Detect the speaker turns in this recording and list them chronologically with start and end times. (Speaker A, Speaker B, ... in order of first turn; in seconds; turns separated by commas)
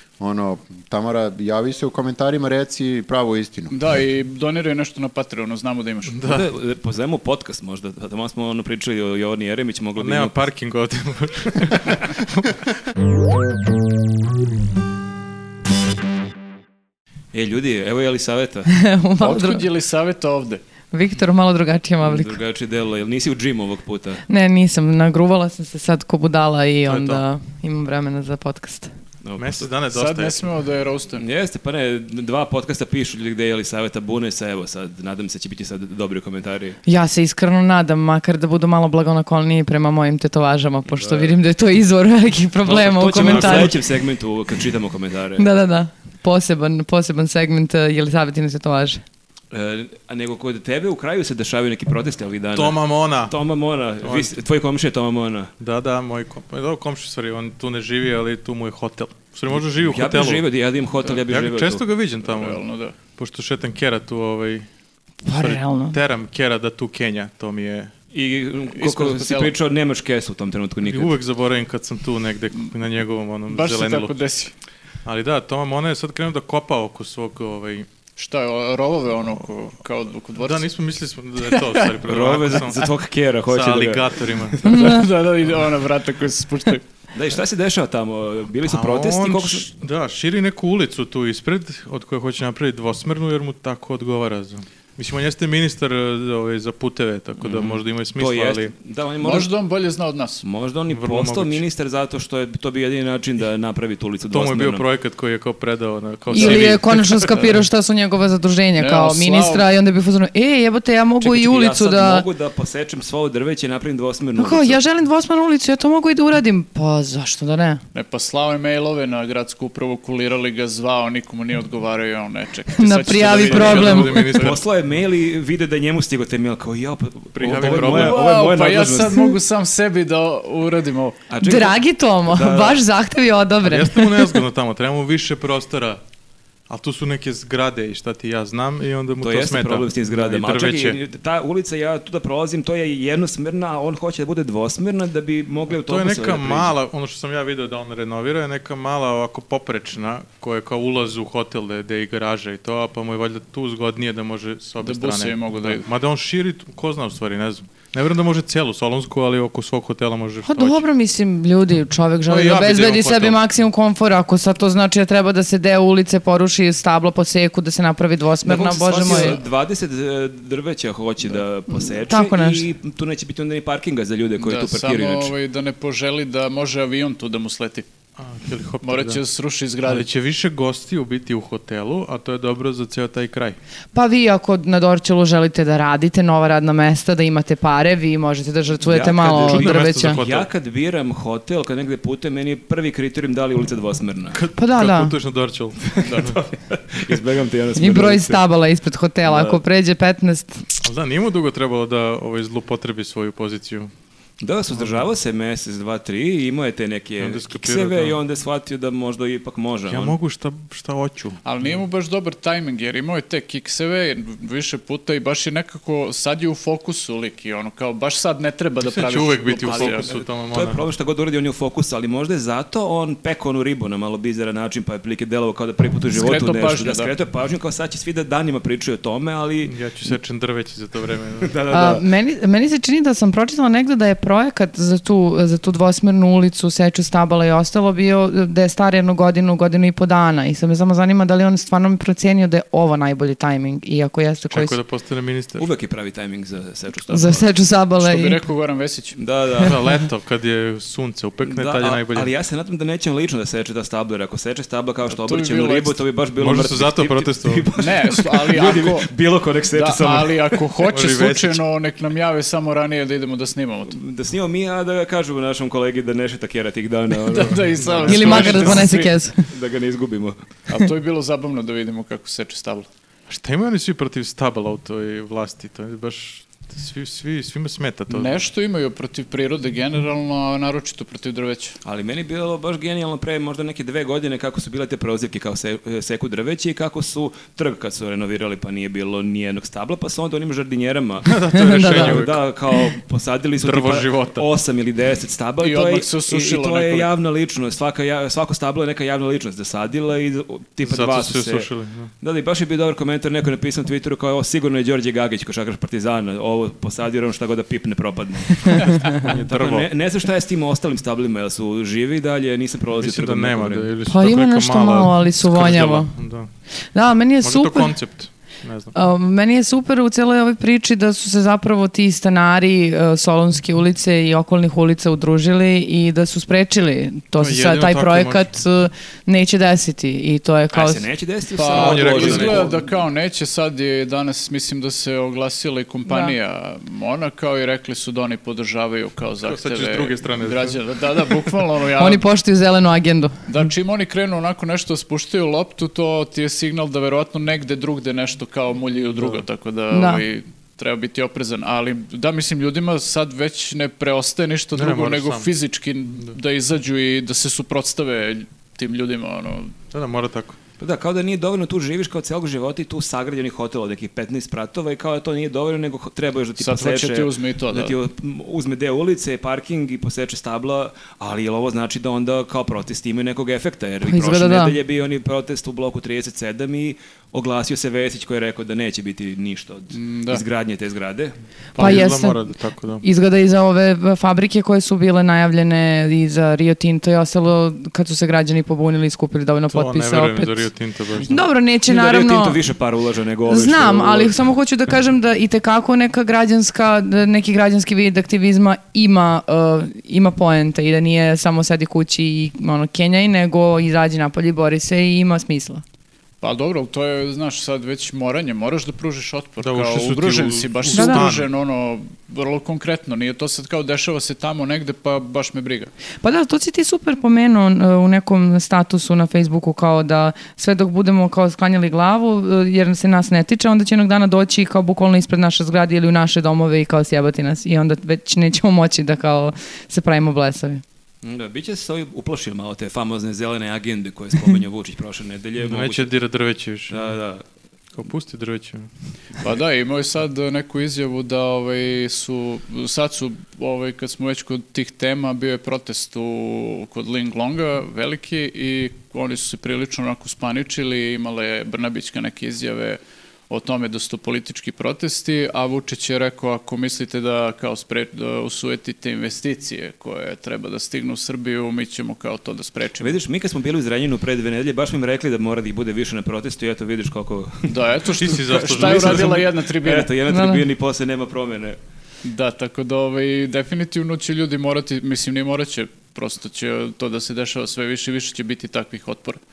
Speaker A: 0.2-3.8, Speaker B: 3.7-6.2, Speaker C: 6.1-6.5, Speaker D: 6.2-10.3, Speaker C: 10.0-12.5, Speaker D: 17.3-18.7, Speaker E: 18.7-19.7, Speaker B: 19.2-20.6, Speaker E: 20.9-22.4, Speaker D: 22.0-24.2, Speaker E: 24.3-28.9, Speaker C: 26.9-27.2, Speaker D: 29.2-29.7, Speaker C: 29.4-30.5, Speaker B: 29.9-31.2, Speaker D: 31.2-36.8, Speaker E: 36.9-43.8, Speaker D: 41.0-41.3, Speaker D: 42.6-45.5, Speaker C: 43.2-43.7, Speaker E: 45.4-49.0, Speaker D: 49.5-55.5, Speaker C: 52.5-53.3, Speaker C: 54.0-54.3, Speaker C: 55.6-60.4, Speaker D: 59.6-61.8, Speaker C: 61.3-64.7, Speaker B: 62.2-63.0, Speaker E: 65.2-66.0, Speaker C: 65.3-67.9, Speaker D: 68.1-71.1, Speaker B: 68.7-69.5, Speaker C: 70.8-74.2, Speaker B: 73.5-74.5, Speaker C: 75.0-77.9, Speaker B: 78.2-80.6, Speaker C: 80.3-82.9, Speaker B: 81.5-81.9, Speaker D: 82.0-84.9, Speaker C: 83.5-84.9, Speaker E: 84.7-85.0, Speaker B: 84.7-86.8, Speaker D: 87.1-89.7, Speaker C: 88.6-98.7, Speaker D: 97.4-99.5, Speaker B: 99.2-100.4, Speaker D: 100.4-104.8, Speaker C: 100.9-101.6, Speaker C: 104.3-107.5, Speaker E: 106.3-112.2, Speaker B: 108.8-109.6, Speaker D: 111.2-114.8, Speaker E: 114.4-117.8, Speaker B: 117.9-124.6, Speaker E: 122.7-124.4, Speaker D: 123.3-129.3, Speaker C: 123.3-124.6, Speaker C: 127.3-128.2, Speaker B: 127.4-131.2, Speaker D: 131.3-132.8, Speaker E: 131.4-134.4, Speaker C: 133.6-136.0, Speaker C: 136.7-141.0, Speaker D: 139.2-146.7, Speaker C: 145.7-160.8, Speaker B: 154.8-155.8, Speaker E: 160.4-169.4, Speaker C: 162.3-163.4, Speaker D: 168.4-175.3, Speaker E: 171.7-172.7, Speaker B: 174.4-177.9, Speaker C: 178.2-179.2, Speaker B: 178.8-180.1, Speaker C: 179.8-183.6, Speaker E: 183.9-190.2, Speaker D: 188.8-194.4, Speaker C: 189.4-190.5, Speaker C: 194.3-196.4, Speaker E: 194.6-195.1, Speaker D: 195.9-198.4, Speaker B: 196.1-196.3, Speaker E: 197.8-200.6, Speaker D: 199.2-199.6, Speaker C: 200.8-203.9, Speaker D: 204.4-210.2, Speaker C: 204.7-205.0, Speaker C: 207.2-208.2, Speaker C: 209.9-211.8, Speaker B: 211.4-220.1, Speaker C: 218.8-220.8, Speaker D: 219.6-229.7, Speaker B: 226.1-227.1, Speaker C: 229.6-231.5, Speaker D: 231.4-232.0, Speaker E: 231.7-244.8, Speaker C: 244.5-245.7, Speaker D: 245.6-247.5, Speaker E: 247.1-248.4, Speaker B: 248.0-249.2, Speaker D: 249.2-249.8, Speaker C: 249.6-252.3, Speaker D: 251.4-260.6, Speaker B: 255.1-256.0, Speaker C: 256.4-257.7, Speaker B: 257.8-259.1, Speaker B: 259.7-264.0, Speaker C: 260.9-261.6, Speaker D: 263.9-268.7, Speaker B: 267.3-269.1, Speaker C: 267.8-268.9, Speaker E: 268.1-269.5, Speaker D: 269.5-270.4, Speaker B: 270.7-272.9, Speaker C: 273.3-278.3, Speaker B: 278.1-281.8, Speaker D: 281.8-301.7, Speaker C: 291.2-292.4, Speaker E: 291.5-292.2, Speaker C: 293.6-294.4, Speaker B: 295.6-297.1, Speaker C: 300.8-302.1, Speaker D: 302.2-313.9, Speaker E: 308.7-309.1, Speaker C: 309.1-309.9, Speaker C: 313.0-316.5, Speaker E: 314.1-316.1, Speaker E: 316.9-317.9, Speaker C: 317.4-318.9, Speaker E: 318.9-331.1, Speaker C: 327.4-328.5, Speaker D: 330.7-332.9, Speaker B: 331.5-342.2, Speaker C: 331.7-332.8, Speaker E: 336.1-336.4, Speaker C: 339.4-340.8, Speaker E: 341.9-343.4, Speaker B: 343.5-359.8, Speaker E: 349.9-350.2, Speaker C: 354.7-355.5, Speaker C: 359.9-360.6, Speaker D: 360.8-381.9, Speaker B: 366.6-367.9, Speaker E: 374.0-374.8, Speaker B: 379.9-380.4, Speaker C: 381.7-383.0, Speaker E: 381.7-392.6, Speaker C: 389.7-391.4, Speaker D: 391.9-394.3, Speaker E: 393.5-405.8, Speaker B: 406.4-415.9, Speaker C: 409.6-411.5, Speaker E: 410.9-411.3, Speaker E: 416.2-430.8, Speaker D: 431.2-436.1, Speaker C: 435.6-437.2, Speaker D: 436.9-437.4, Speaker C: 437.9-438.9, Speaker B: 439.4-463.1, Speaker D: 463.0-467.9, Speaker B: 467.7-470.1, Speaker C: 468.1-469.5, Speaker D: 468.6-471.8, Speaker E: 470.3-470.6, Speaker B: 472.2-479.4